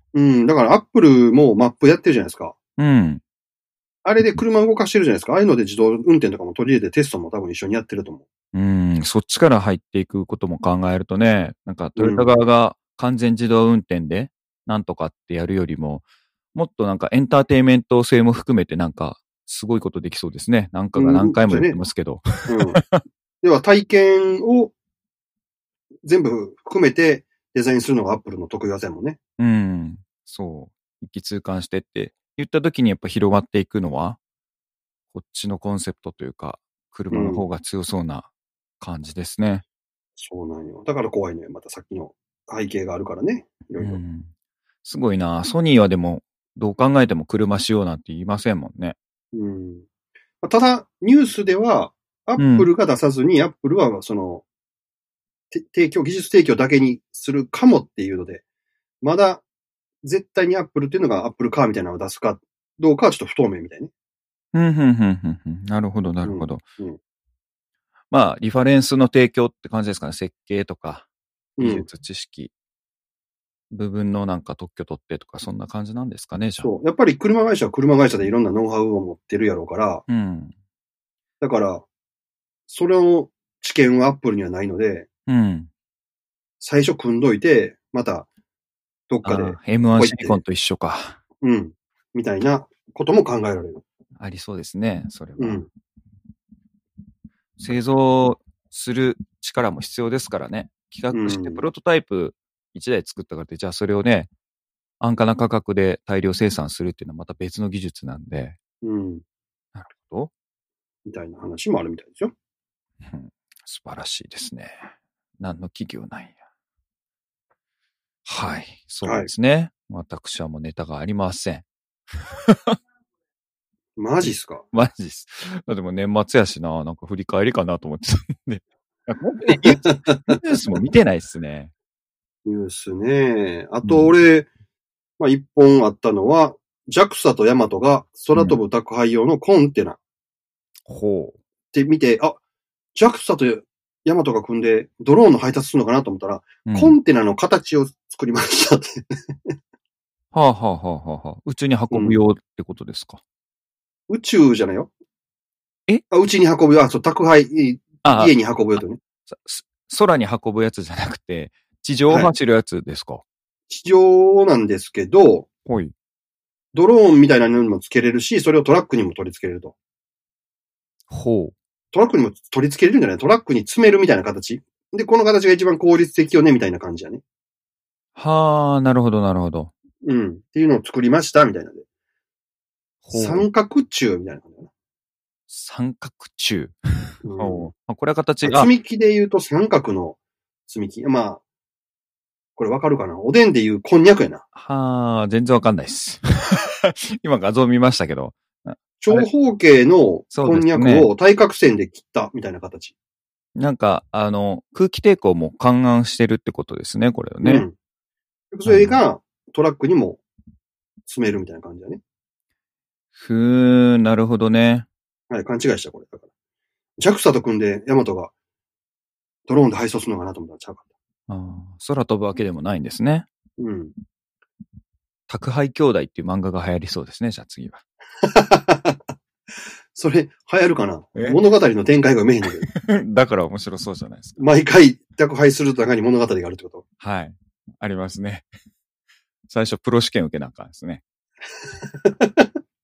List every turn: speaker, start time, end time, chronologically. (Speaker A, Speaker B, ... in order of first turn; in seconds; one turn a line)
Speaker A: 0.1-2.6
Speaker B: 2.8-3.2
Speaker A: 4.0-8.2
Speaker B: 8.5-16.0
Speaker A: 12.0-12.3
Speaker B: 16.6-23.0
Speaker A: 21.0-21.8
Speaker A: 22.5-22.8
Speaker A: 23.4-24.7
Speaker A: 26.0-29.2
Speaker B: 29.4-34.2
Speaker B: 35.1-38.3
Speaker A: 37.1-37.4
Speaker B: 38.8-39.6
Speaker A: 40.2-44.0
Speaker B: 43.8-44.3
Speaker B: 44.8-49.0
Speaker A: 49.3-49.9
Speaker A: 50.4-54.4
Speaker B: 52.4-52.7
Speaker A: 55.5-58.4
Speaker A: 59.0-59.4
Speaker A: 60.0-63.9
Speaker B: 64.5-66.6
Speaker A: 66.2-67.0
Speaker B: 68.1-71.1
Speaker A: 71.6-71.9
Speaker B: 71.6-72.5
Speaker B: 73.7-76.7
Speaker A: 76.6-80.0
Speaker B: 80.1-80.5
Speaker A: 81.4-81.9
Speaker A: 82.7-85.1
Speaker B: 85.3-85.7
Speaker A: 86.6-88.3
Speaker A: 89.1-90.4
Speaker B: 89.2-91.2
Speaker A: 91.4-93.8
Speaker B: 94.2-95.6
Speaker A: 95.4-95.7
Speaker B: 97.6-104.3
Speaker A: 101.1-101.6
Speaker B: 105.0-108.6
Speaker A: 108.8-109.2
Speaker B: 109.8-110.3
Speaker A: 111.1-112.3
Speaker B: 113.0-114.9
Speaker B: 115.4-116.4
Speaker B: 118.3-121.7
Speaker A: 119.0-119.3
Speaker B: 122.2-122.8
Speaker A: 124.0-124.7
Speaker B: 124.2-131.7
Speaker A: 129.5-130.4
Speaker A: 132.4-134.5
Speaker B: 133.8-134.1
Speaker A: 135.2-140.0
Speaker B: 140.9-141.4
Speaker A: 141.7-142.4
Speaker A: 142.9-149.5
Speaker B: 146.7-146.9
Speaker B: 150.3-153.2
Speaker A: 151.9-152.2
Speaker A: 154.1-154.9
Speaker A: 156.1-159.0
Speaker B: 158.0-158.3
Speaker B: 159.3-163.2
Speaker A: 163.7-165.5
Speaker B: 165.7-165.9
Speaker A: 166.7-169.7
Speaker B: 171.1-171.5
Speaker A: 171.9-177.2
Speaker B: 178.2-179.7
Speaker A: 180.0-181.8
Speaker B: 183.0-183.5
Speaker A: 183.1-184.7
Speaker B: 185.5-186.8
Speaker A: 187.2-187.7
Speaker B: 187.4-188.7
Speaker A: 188.4-191.4
Speaker A: 192.6-194.4
Speaker B: 194.5-199.3
Speaker A: 199.0-202.9
Speaker B: 200.3-201.1
Speaker B: 203.6-207.7
Speaker A: 207.4-207.7
Speaker A: 208.5-210.2
Speaker B: 208.7-209.0
Speaker A: 211.1-212.0
Speaker B: 213.2-214.9
Speaker A: 215.3-216.3
Speaker A: 217.0-218.3
Speaker A: 219.5-220.8
Speaker B: 221.3-223.3
Speaker A: 223.6-223.9
Speaker B: 225.3-227.8
Speaker A: 228.2-229.0
Speaker A: 229.9-232.7
Speaker B: 232.7-234.4
Speaker A: 234.4-236.8
Speaker B: 237.0-238.5
Speaker B: 239.5-241.0
Speaker A: 242.0-242.5